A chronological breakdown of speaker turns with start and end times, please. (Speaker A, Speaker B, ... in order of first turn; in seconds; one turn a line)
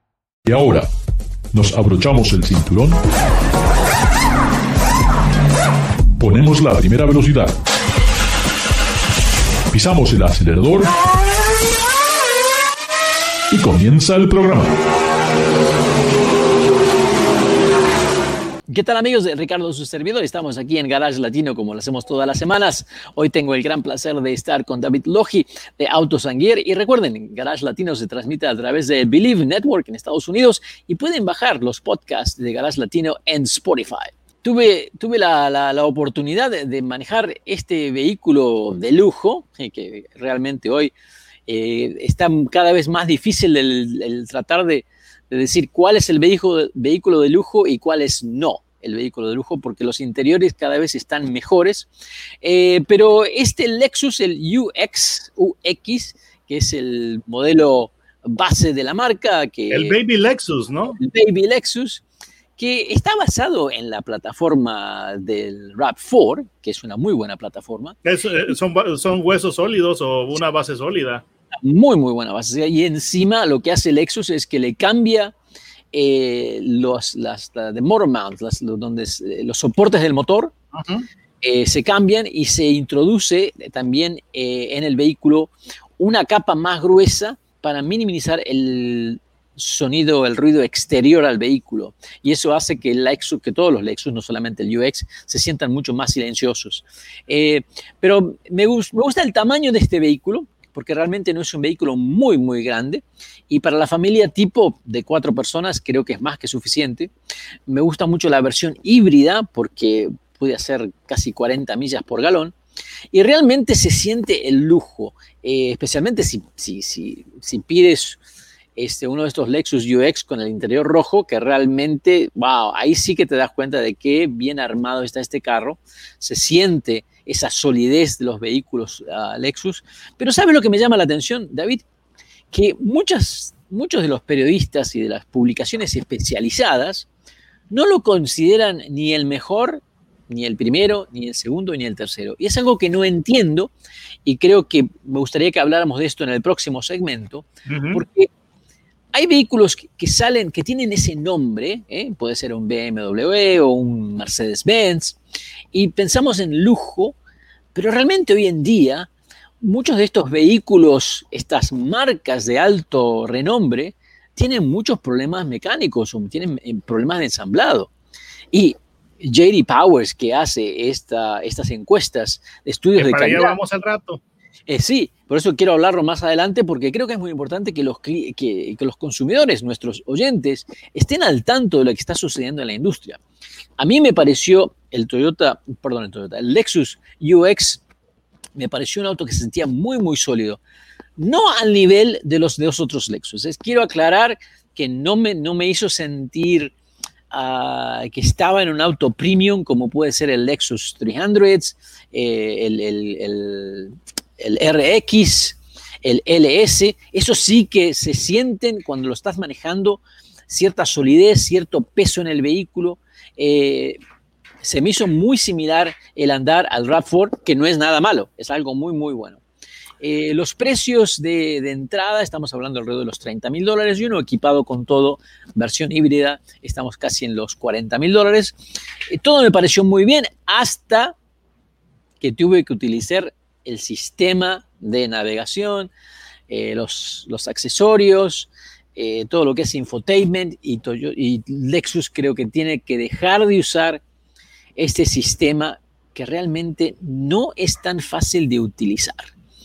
Speaker A: 0.5-0.9
Speaker A: 1.5-3.0
Speaker A: 6.2-7.6
Speaker A: 9.7-10.9
Speaker A: 13.5-14.8
Speaker B: 18.7-40.9
Speaker B: 41.5-51.9
Speaker B: 52.4-60.0
Speaker C: 59.7-61.0
Speaker B: 61.0-62.0
Speaker B: 62.6-68.0
Speaker C: 68.0-71.2
Speaker B: 71.6-75.3
Speaker B: 75.9-80.5
Speaker C: 80.7-81.1
Speaker B: 81.4-107.1
Speaker B: 107.7-112.5
Speaker B: 113.1-118.2
Speaker B: 118.8-131.8
Speaker B: 132.5-137.1
Speaker B: 137.7-143.7
Speaker B: 144.2-148.3
Speaker C: 147.7-148.0
Speaker B: 149.1-155.2
Speaker B: 155.7-157.2
Speaker B: 157.7-159.1
Speaker B: 159.6-167.9
Speaker B: 168.5-173.6
Speaker C: 173.0-174.2
Speaker B: 174.7-183.2
Speaker B: 183.8-187.8
Speaker B: 188.6-190.6
Speaker B: 191.2-196.7
Speaker B: 197.3-214.0
Speaker B: 214.6-219.4
Speaker B: 220.0-228.6
Speaker B: 229.1-231.2
Speaker B: 232.2-235.9
Speaker B: 236.5-244.0
Speaker B: 244.8-249.3